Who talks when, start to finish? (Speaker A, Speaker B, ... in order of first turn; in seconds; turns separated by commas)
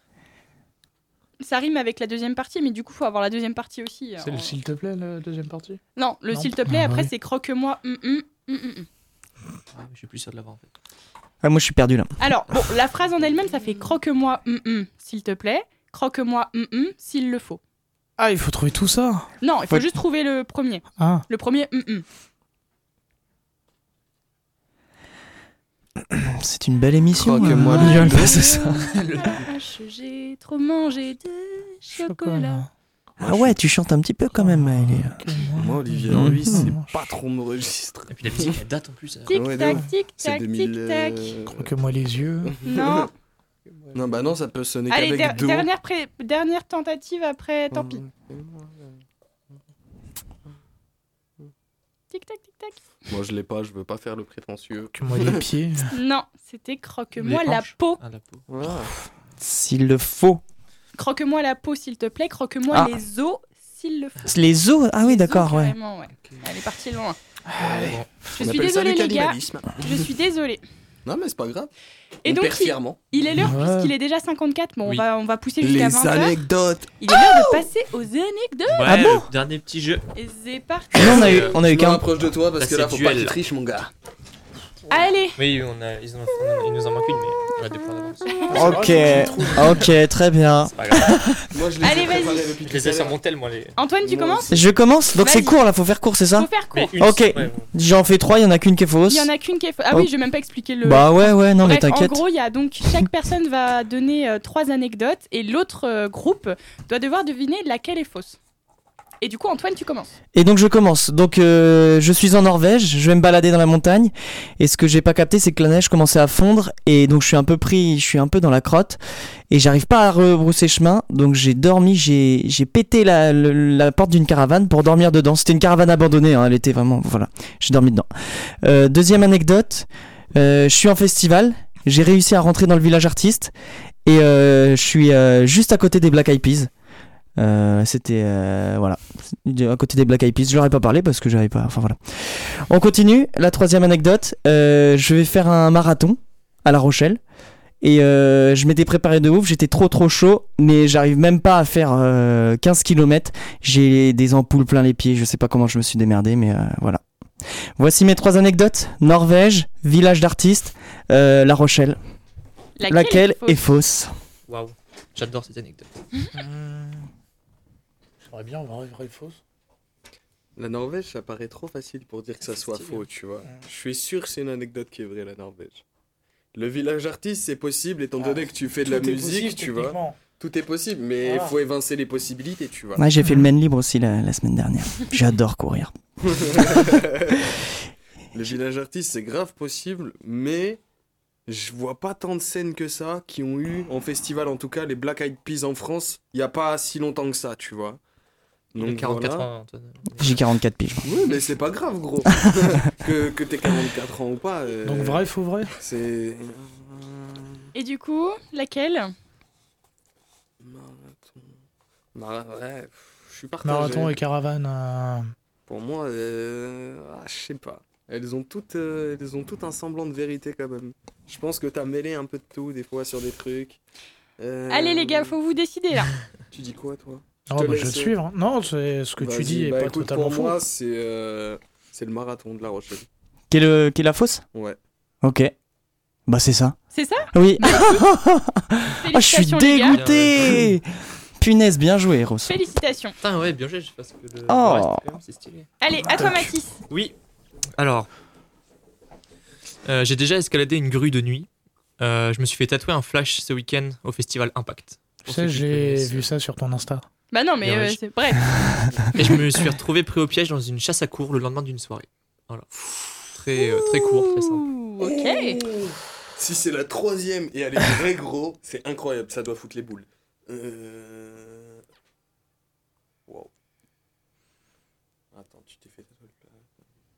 Speaker A: 1.4-4.5, Speaker B: 4.2-7.1, Speaker A: 6.0-8.9, Speaker C: 9.7-10.7, Speaker D: 11.4-12.1, Speaker A: 12.2-17.6, Speaker B: 18.2-19.3, Speaker A: 19.4-22.1, Speaker B: 21.0-21.2, Speaker D: 26.2-29.3, Speaker E: 27.2-28.4, Speaker A: 27.8-32.6, Speaker B: 32.0-32.7, Speaker D: 33.2-35.2, Speaker B: 34.3-36.9, Speaker E: 35.5-38.6, Speaker D: 36.1-36.7, Speaker C: 38.1-39.5, Speaker A: 39.3-41.3, Speaker E: 39.3-41.7, Speaker B: 41.5-42.5, Speaker E: 42.5-43.1, Speaker A: 42.6-43.1, Speaker E: 43.9-45.7, Speaker A: 44.9-48.0, Speaker E: 47.7-48.9, Speaker A: 52.1-52.8, Speaker E: 53.1-55.4, Speaker B: 55.0-55.9, Speaker A: 55.9-58.0, Speaker C: 57.2-58.5, Speaker E: 58.5-58.9, Speaker D: 59.4-60.4, Speaker A: 61.0-64.4, Speaker D: 64.3-65.8, Speaker A: 65.0-67.2, Speaker B: 67.5-67.9, Speaker E: 67.6-70.1, Speaker C: 67.8-68.1, Speaker A: 68.3-70.6, Speaker E: 71.0-71.7, Speaker A: 72.2-76.4, Speaker E: 72.2-73.0, Speaker B: 73.4-73.9, Speaker E: 75.6-77.4, Speaker A: 77.0-78.9, Speaker C: 78.7-80.0, Speaker D: 78.8-79.3, Speaker A: 80.2-81.4, Speaker D: 80.9-82.1, Speaker E: 81.0-83.9, Speaker C: 81.1-81.6, Speaker C: 82.6-83.4, Speaker A: 84.9-85.4, Speaker C: 85.4-88.5, Speaker A: 88.3-88.8, Speaker D: 88.5-91.5, Speaker E: 88.5-89.9, Speaker B: 88.6-89.7, Speaker C: 90.7-91.3, Speaker E: 91.5-93.2, Speaker A: 91.8-92.5, Speaker C: 92.6-93.8, Speaker A: 93.8-94.6, Speaker E: 94.0-94.7, Speaker D: 94.5-99.3, Speaker A: 95.2-95.6, Speaker A: 96.4-97.0, Speaker C: 96.7-97.7, Speaker A: 99.1-108.4, Speaker D: 100.8-102.2, Speaker A: 109.2-110.1, Speaker D: 110.3-133.5, Speaker D: 134.1-136.7, Speaker D: 137.4-147.2, Speaker D: 147.8-157.0, Speaker D: 157.8-162.0, Speaker A: 162.8-163.6, Speaker D: 162.9-164.1, Speaker C: 164.5-166.0, Speaker B: 166.3-167.1, Speaker B: 168.2-169.4, Speaker E: 170.6-175.8, Speaker C: 172.4-173.1, Speaker E: 176.5-183.1, Speaker B: 178.2-180.2, Speaker B: 181.2-181.6, Speaker D: 183.0-187.0, Speaker E: 186.3-187.4, Speaker E: 188.3-190.8, Speaker E: 191.5-198.0, Speaker E: 198.7-199.5, Speaker C: 198.8-200.4, Speaker D: 200.2-201.1, Speaker E: 201.0-207.6, Speaker B: 204.8-205.7, Speaker A: 207.7-209.1, Speaker E: 210.6-211.5, Speaker E: 212.2-214.2, Speaker B: 213.6-215.2, Speaker E: 215.7-223.8, Speaker E: 224.4-225.3, Speaker A: 224.7-226.1, Speaker E: 226.5-228.2, Speaker B: 227.5-230.6, Speaker E: 229.2-233.1, Speaker D: 233.5-234.4, Speaker D: 235.2-235.5, Speaker D: 236.3-236.8, Speaker A: 236.9-238.0, Speaker D: 237.3-240.8, Speaker A: 239.0-240.0, Speaker C: 239.9-240.7, Speaker D: 241.4-242.5, Speaker A: 242.5-243.2, Speaker C: 243.2-245.7, Speaker D: 244.5-245.1, Speaker A: 245.8-246.8, Speaker C: 246.9-247.1, Speaker C: 247.8-248.1, Speaker C: 249.9-251.5, Speaker C: 252.0-256.3, Speaker B: 255.3-257.1, Speaker A: 257.3-258.5, Speaker C: 257.6-258.0, Speaker C: 259.1-262.7, Speaker C: 263.3-264.7, Speaker A: 264.4-265.6, Speaker E: 265.0-271.8, Speaker E: 275.3-276.5